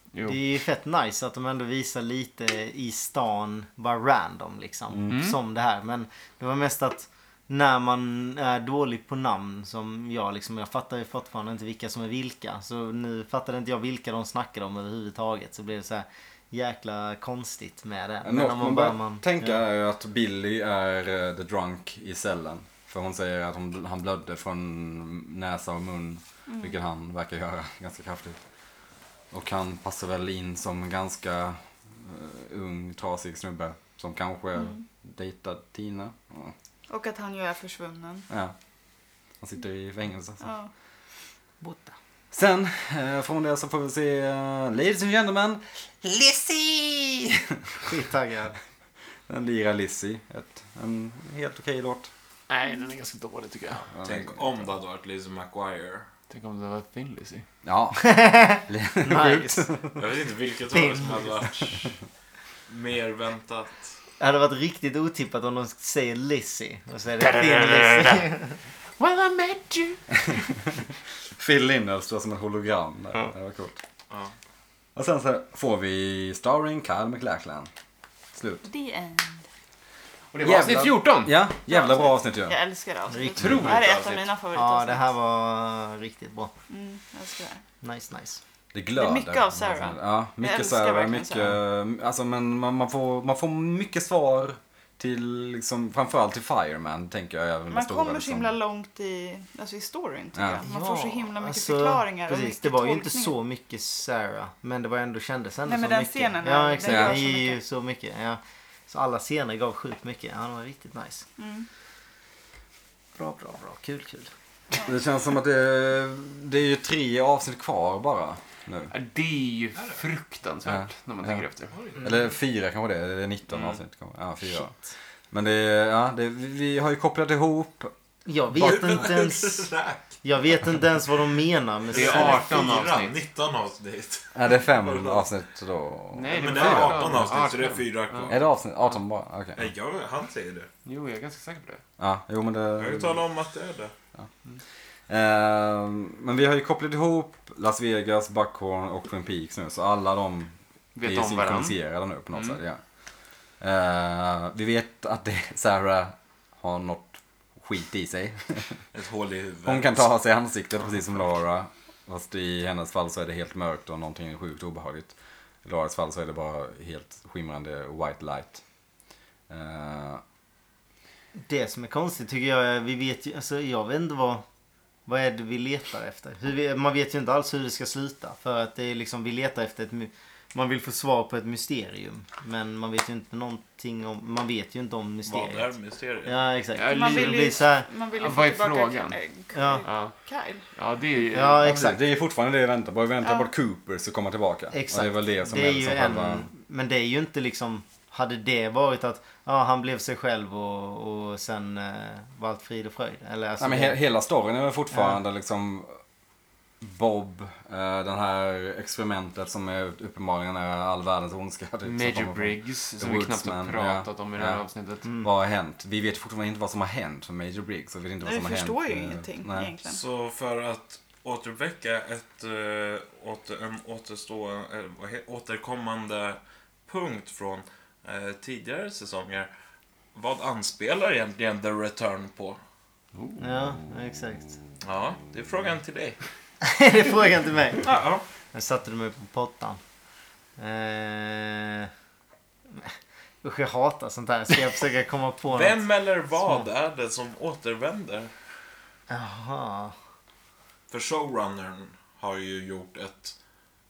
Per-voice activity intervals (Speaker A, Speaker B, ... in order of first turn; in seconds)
Speaker A: 0.1-0.4, 5.1-5.4, 52.5-53.9, 56.3-57.5, 67.2-68.3, 69.0-70.4, 80.3-81.4, 83.4-83.8, 118.9-121.8, 131.9-133.2, 136.1-138.3, 140.8-141.8, 150.9-151.8, 186.8-189.2, 189.8-190.1, 190.7-191.8, 211.8-215.1, 233.2-233.4
Speaker B: 0.3-19.5, 41.6-42.0, 47.9-48.6, 58.0-59.7, 60.7-61.2, 64.2-68.6, 83.1-83.6, 84.5-86.5, 87.8-88.4, 100.6-111.3, 113.2-114.3, 128.3-129.7, 130.2-132.4, 171.4-174.4, 175.1-185.7, 186.2-187.9, 189.5-189.8, 191.3-192.0, 194.7-204.0, 204.9-205.2, 215.1-215.3, 233.4-234.6, 236.6-238.0, 238.5-239.8, 240.6-241.9, 243.4-246.7, 249.1-249.9
Speaker C: 18.2-28.4, 29.3-36.5, 38.3-38.5, 39.4-40.4, 42.3-47.9, 49.3-52.1, 53.9-54.5, 57.6-60.0, 71.4-73.8, 75.0-77.7, 78.3-78.7, 80.4-82.6, 88.7-98.6, 100.3-100.6, 106.9-107.2, 114.8-118.9, 120.7-121.5, 122.0-124.8, 125.3-127.9, 128.6-129.0, 134.3-137.2, 138.3-139.7, 142.0-143.2, 145.1-152.8, 153.6-158.8, 159.7-165.1, 165.7-168.6, 169.5-170.2, 191.6-196.5, 203.6-206.0, 206.8-214.6, 215.2-219.7
Speaker D: 34.6-34.8, 36.9-38.3, 40.4-40.7, 78.6-79.4, 81.7-85.1, 86.7-87.6, 89.0-91.6, 97.7-103.4, 105.7-107.6, 111.4-111.7, 186.8-190.7, 193.2-193.5, 218.2-220.0
Speaker E: 54.0-56.1, 60.0-61.9, 62.7-63.8, 83.5-84.3, 121.7-122.0, 128.5-130.0, 131.9-135.3, 136.3-138.4, 139.6-140.7, 142.8-143.9, 158.9-160.1, 185.3-186.4, 219.8-229.5, 230.2-232.6, 234.8-236.2, 237.8-238.2, 245.5-248.3, 250.9-253.3